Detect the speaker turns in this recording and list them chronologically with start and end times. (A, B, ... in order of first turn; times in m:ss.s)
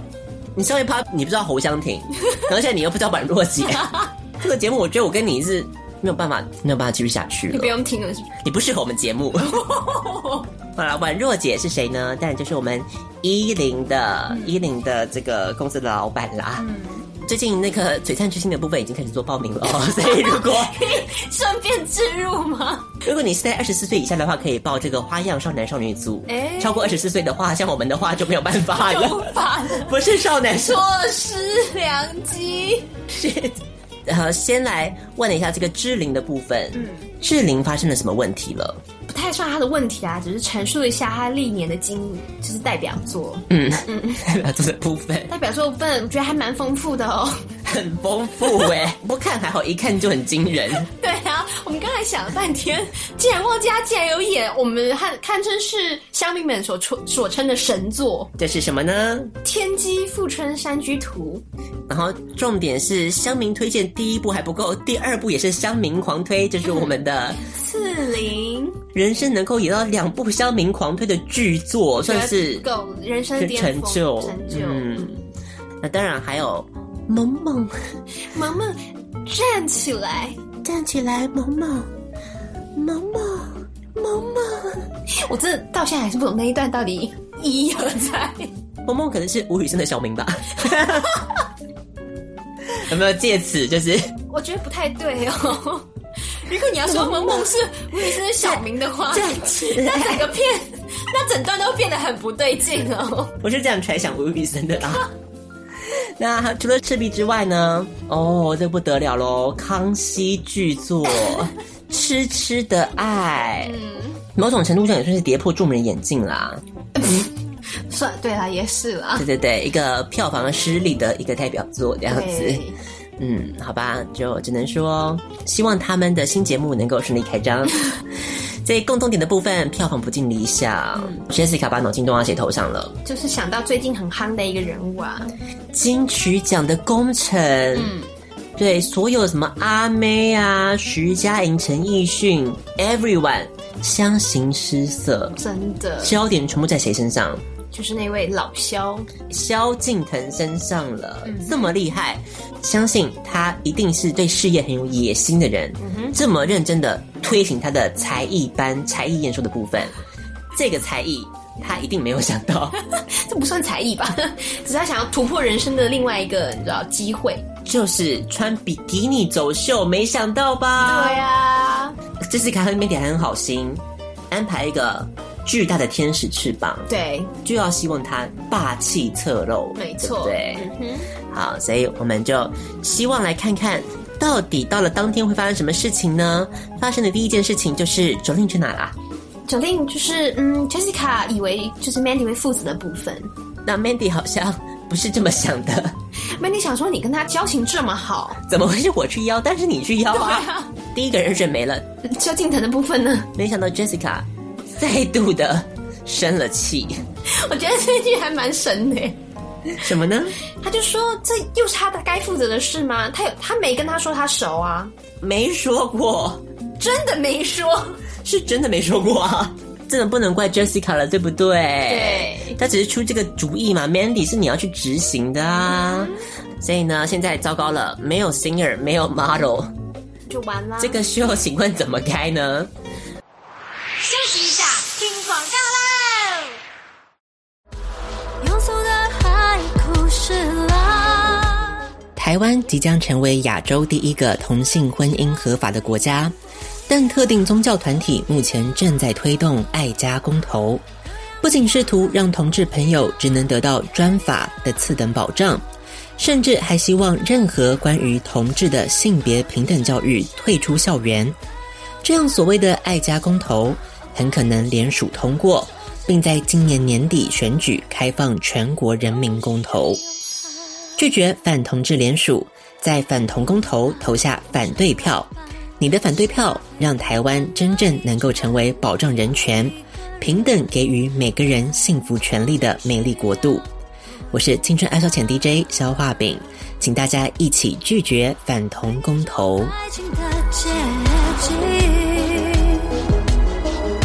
0:00.6-0:07.7 A
0:03.8-0:04.0 B
0:07.5-0:08.3 B
0:08.4-0:09.6 A
0:09.4-0:10.5 B
0:10.8-0:16.7 A
0:14.3-0:14.6 B
0:16.6-0:17.1 B
0:17.2-0:21.0 A
0:19.8-0:23.0 B
0:23.0-0:30.9 A
0:26.3-0:27.0 B
0:28.7-0:30.0 B
0:30.5-0:33.0 B
0:33.1-0:38.8 A
0:36.7-0:37.1 B
0:39.1-0:44.2 B
0:43.5-0:45.3 A
0:45.3-0:47.4 B
0:47.6-0:50.9 A
0:50.9-0:58.3 B
0:58.4-0:59.3 A
0:59.4-1:01.4 B
1:01.9-1:07.4 A
1:06.7-1:08.8 B
1:08.9-1:12.7 A
1:12.0-1:15.1 B
1:13.4-1:15.2 A
1:15.8-1:17.8 A
1:18.3-1:20.4 B
1:20.6-1:21.9 A
1:22.8-1:24.9 A
1:25.1-1:28.5 B
1:28.8-1:31.2 A
1:30.7-1:31.2 B
1:32.7-1:34.1 A
1:34.3-1:43.4 B
1:36.9-1:37.5 A
1:38.3-1:40.3 A
1:43.4-1:45.1 A
1:45.9-1:53.8 A
1:53.6-1:54.2 B
1:54.4-1:56.6 A
1:57.0-1:59.3 B
1:59.2-2:02.6 A
2:02.1-2:02.8 B
2:03.2-2:07.8 A
2:08.6-2:13.0 A
2:11.0-2:11.2 B
2:13.0-2:15.3 B
2:15.7-2:17.9 A
2:17.7-2:18.1 B
2:18.6-2:25.4 A
2:25.4-2:26.2 B
2:26.0-2:27.4 A
2:27.7-2:29.1 B
2:29.3-2:40.0 A
2:31.2-2:31.7 B
2:35.8-2:36.2 B
2:40.5-2:42.8 A
2:43.0-2:47.5 B
2:47.6-2:51.2 A
2:50.8-2:52.0 B
2:52.2-2:56.9 A
2:56.9-2:57.3 B
2:57.4-3:00.7 A
2:59.8-3:01.1 B
3:01.3-3:09.0 A
3:09.5-3:13.3 B
3:13.6-3:16.0 A
3:16.4-3:18.4 B
3:18.5-3:21.9 A
3:20.1-3:20.7 B
3:22.0-3:23.3 B
3:23.4-3:27.0 A
3:27.3-3:29.2 B
3:29.8-3:30.4 A
3:30.6-3:34.9 B
3:35.2-3:36.4 A
3:36.8-3:38.0 B
3:38.2-3:49.7 A
3:41.9-3:42.6 B
3:45.7-3:46.2 B
3:50.3-3:51.0 B
3:50.8-3:52.7 A
3:54.0-3:56.5 B
3:58.4-4:01.8 C
4:02.2-4:06.4 A
4:06.9-4:10.8 A
4:11.4-4:15.7 A
4:16.2-4:21.4 A
4:22.0-4:30.0 A
4:31.0-4:43.7 A
4:44.3-4:49.8 A
4:49.7-4:52.9 C